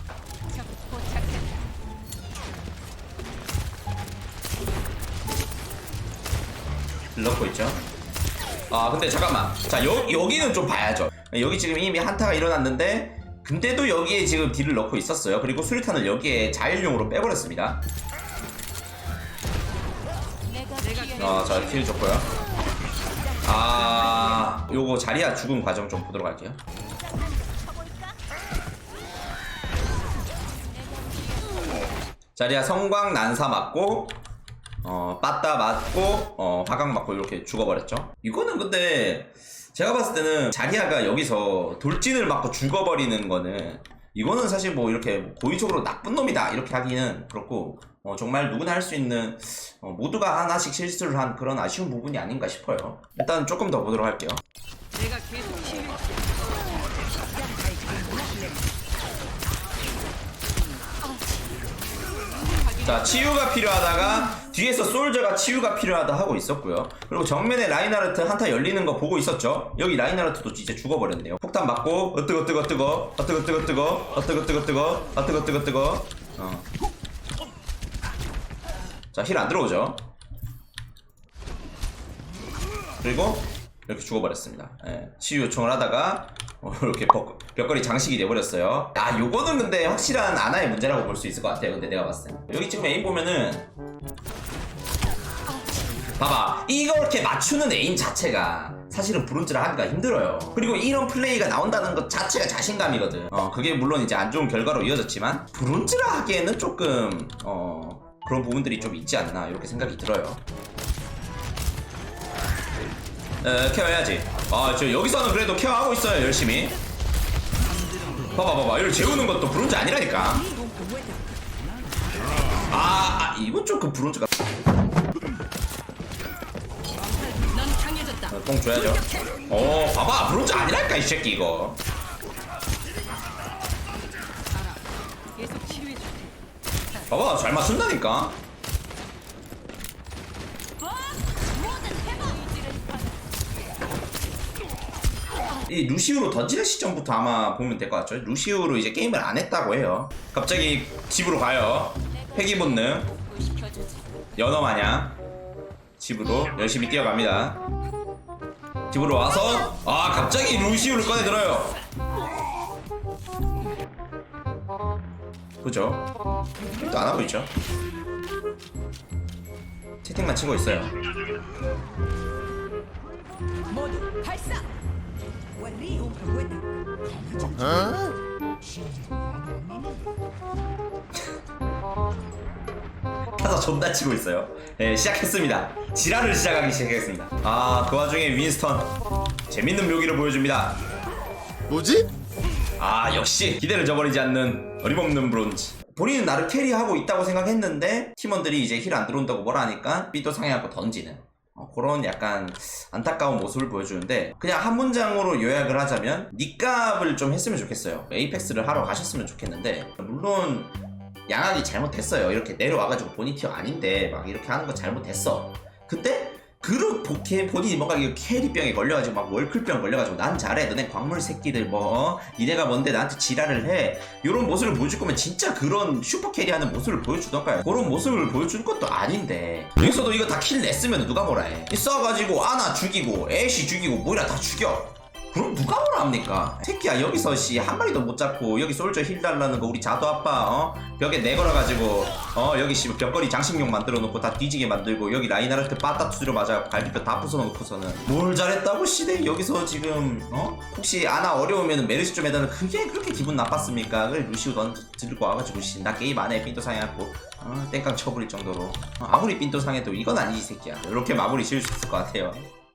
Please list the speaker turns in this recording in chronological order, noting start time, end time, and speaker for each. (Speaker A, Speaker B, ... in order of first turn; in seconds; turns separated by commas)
Speaker A: 0.6-1.5, Speaker B: 7.1-7.9, Speaker B: 8.7-17.8, Speaker A: 20.4-21.2, Speaker B: 21.1-22.3, Speaker B: 23.4-26.6, Speaker A: 30.9-31.6, Speaker B: 32.4-34.2, Speaker B: 34.8-54.4, Speaker A: 55.0-56.1, Speaker A: 57.5-58.5, Speaker B: 62.8-76.7, Speaker B: 79.1-80.0, Speaker B: 83.0-93.7, Speaker B: 96.2-110.4, Speaker B: 113.4-116.8, Speaker B: 118.2-120.6, Speaker A: 120.6-121.3, Speaker B: 122.6-124.3, Speaker A: 127.3-128.2, Speaker B: 128.2-131.8, Speaker A: 135.4-136.3, Speaker B: 137.1-138.4, Speaker A: 141.6-143.2, Speaker B: 145.6-153.2, Speaker A: 153.2-154.3, Speaker B: 154.4-155.2, Speaker B: 156.0-157.6, Speaker B: 158.9-161.8, Speaker B: 165.6-166.1, Speaker B: 166.6-167.5, Speaker B: 170.0-170.9, Speaker A: 173.7-174.6, Speaker A: 175.6-176.7, Speaker A: 177.3-178.0, Speaker B: 183.3-188.9, Speaker B: 189.5-190.8, Speaker B: 192.8-210.7, Speaker B: 211.3-262.5